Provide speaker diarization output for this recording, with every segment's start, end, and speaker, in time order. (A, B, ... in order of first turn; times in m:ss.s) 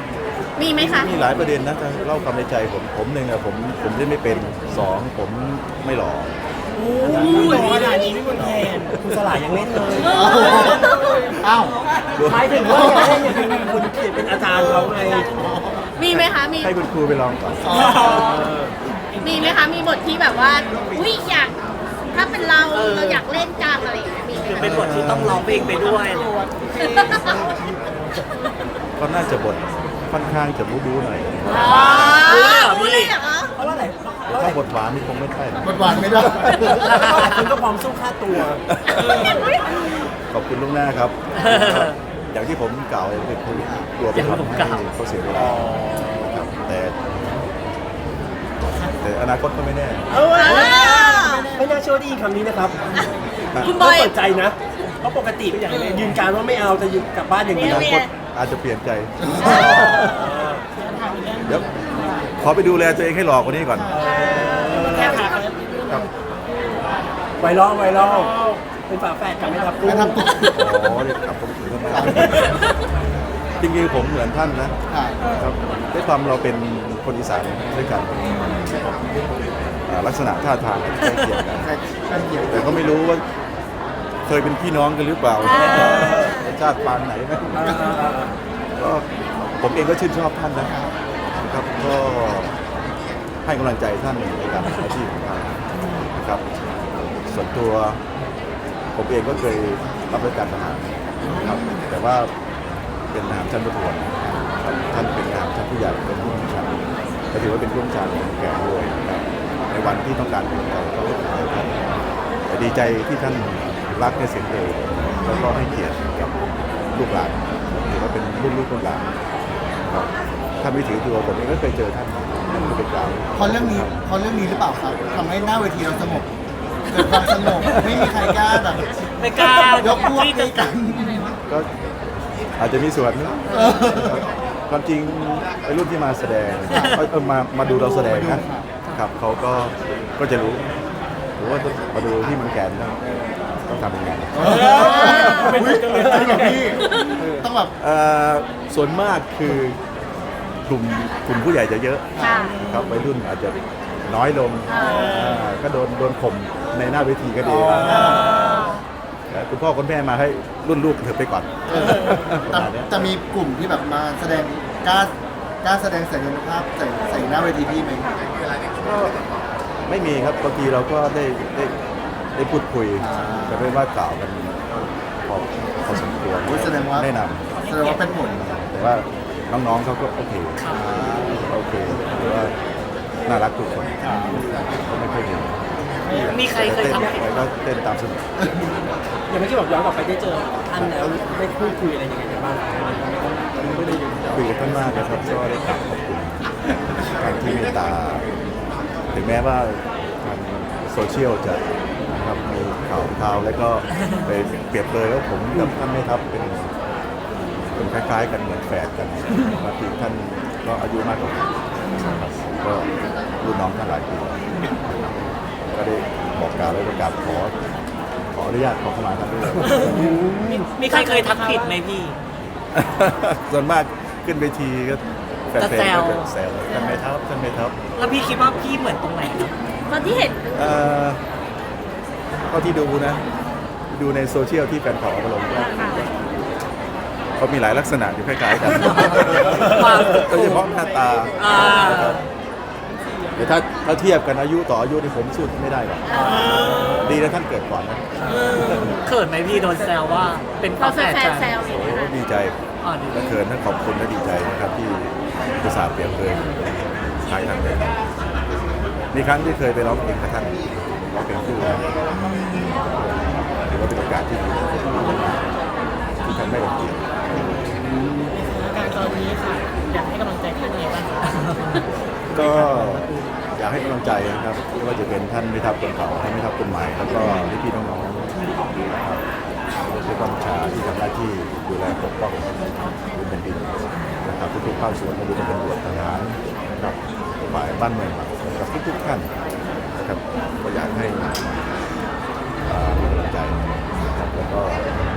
0:00.6-0:01.1 A
0:00.8-0:06.3 B
0:06.7-0:10.4 C
0:07.1-0:08.9 D
0:07.5-0:08.3 A
0:10.0-0:11.8 E
0:10.0-0:11.1 A
0:12.1-0:12.5 B
0:12.2-0:15.3 C
0:12.6-0:13.3 E
0:15.3-0:15.9 E
0:16.0-0:16.8 A
0:16.1-0:17.9 B
0:17.6-0:18.3 E
0:17.7-0:18.4 A
0:18.1-0:18.6 C
0:19.2-0:21.5 A
0:19.2-0:19.7 D
0:22.1-0:24.6 A
0:22.7-0:23.2 F
0:24.4-0:26.3 F
0:24.6-0:25.5 B
0:26.0-0:27.3 D
0:26.8-0:27.4 A
0:29.0-0:32.2 B
0:31.4-0:33.5 A
0:31.5-0:32.6 C
0:31.6-0:33.1 F
0:33.5-0:34.6 C
0:34.3-0:36.0 B
0:35.6-0:37.3 E
0:36.7-0:38.6 C
0:38.7-0:47.1 B
0:39.0-0:39.4 A
0:41.4-0:41.9 F
0:44.1-0:44.8 F
0:49.0-0:50.1 B
0:50.1-0:53.0 C
0:50.2-0:51.5 A
0:51.3-0:51.7 D
0:53.6-0:54.1 A
0:53.6-0:58.1 C
0:57.5-0:58.1 A
0:57.6-1:00.2 B
0:59.4-1:02.3 D
0:59.5-0:59.9 A
1:02.4-1:04.0 B
1:03.6-1:07.2 D
1:03.9-1:05.2 C
1:04.7-1:05.2 B
1:07.4-1:10.2 C
1:07.9-1:08.6 D
1:09.4-1:10.2 D
1:09.8-1:10.6 E
1:10.5-1:12.5 B
1:11.9-1:12.5 E
1:13.6-1:14.7 B
1:14.9-1:15.2 E
1:15.3-1:18.3 B
1:19.9-1:21.7 B
1:21.6-1:22.9 E
1:22.4-1:23.2 B
1:24.3-1:27.8 B
1:25.4-1:26.3 A
1:27.5-1:28.4 C
1:28.8-1:29.0 B
1:29.6-1:30.8 B
1:30.6-1:30.9 E
1:31.4-1:32.5 B
1:33.4-1:35.6 B
1:35.8-1:36.1 F
1:36.1-1:36.4 B
1:37.2-1:38.0 B
1:39.0-1:42.3 B
1:41.3-1:41.8 F
1:43.1-1:46.7 B
1:47.3-1:56.3 B
1:56.9-1:59.1 B
2:00.6-2:04.0 B
2:03.3-2:06.3 E
2:06.9-2:09.0 E
2:09.2-2:10.7 F
2:09.8-2:11.3 E
2:12.6-2:20.6 B
2:13.5-2:13.8 F
2:13.5-2:14.2 E
2:16.7-2:17.0 E
2:17.6-2:18.7 E
2:21.4-2:23.0 B
2:23.7-2:25.2 B
2:24.3-2:27.7 E
2:24.4-2:27.4 C
2:27.8-2:29.8 B
2:30.7-2:38.2 B
2:32.2-2:32.5 E
2:32.2-2:32.6 A
2:34.7-2:35.1 A
2:35.0-2:35.3 D
2:37.4-2:38.4 E
2:39.3-2:43.0 B
2:41.7-2:45.1 E
2:45.6-2:48.2 E
2:48.8-2:49.1 B
2:49.9-2:51.8 B
2:52.3-2:54.6 B
2:53.0-2:53.7 E
2:55.2-2:57.4 B
2:56.4-2:57.1 E
2:57.6-2:58.0 F
2:57.6-2:58.5 E
2:58.3-3:00.6 B
3:00.6-3:00.9 F
3:00.7-3:01.5 E
3:01.4-3:02.5 B
3:03.2-3:05.6 B
3:04.0-3:04.6 E
3:06.0-3:07.2 F
3:06.1-3:06.3 E
3:06.4-3:08.2 B
3:09.3-3:14.1 C
3:10.7-3:11.1 B
3:14.3-3:18.2 B
3:19.1-3:26.7 B
3:27.7-3:32.9 B
3:33.4-3:35.0 B
3:35.6-3:37.5 B
3:38.3-3:40.1 B
3:39.8-3:41.0 C
3:40.4-3:41.7 D
3:40.8-3:42.2 F
3:42.7-3:47.7 B
3:45.6-3:46.3 F
3:46.7-3:47.0 D
3:48.0-3:49.5 F
3:49.9-3:50.7 A
3:50.5-3:51.2 B
3:52.5-3:53.2 B
3:53.9-3:55.9 B
3:55.5-3:56.0 A
3:57.4-4:02.1 B
3:58.7-4:00.7 F
4:00.7-4:01.9 A
4:01.4-4:02.2 F
4:01.5-4:02.2 C
4:01.6-4:02.2 D
4:02.9-4:03.6 D
4:03.3-4:06.1 B
4:06.0-4:06.8 A
4:06.1-4:07.2 C
4:06.2-4:07.1 F
4:06.9-4:09.0 B
4:08.2-4:09.0 C
4:08.3-4:11.5 F
4:08.6-4:09.0 A
4:09.5-4:10.0 C
4:10.8-4:12.1 A
4:11.6-4:12.6 B
4:12.8-4:13.3 F
4:13.1-4:17.9 B
4:19.1-4:21.9 B
4:22.7-4:25.4 B
4:26.2-4:27.6 B
4:28.3-4:32.9 D
4:32.3-4:39.2 B
4:39.8-4:42.6 B
4:43.1-4:43.7 B
4:44.2-4:47.0 B
4:47.5-4:49.3 B
4:50.0-4:51.6 B
4:52.6-4:54.8 B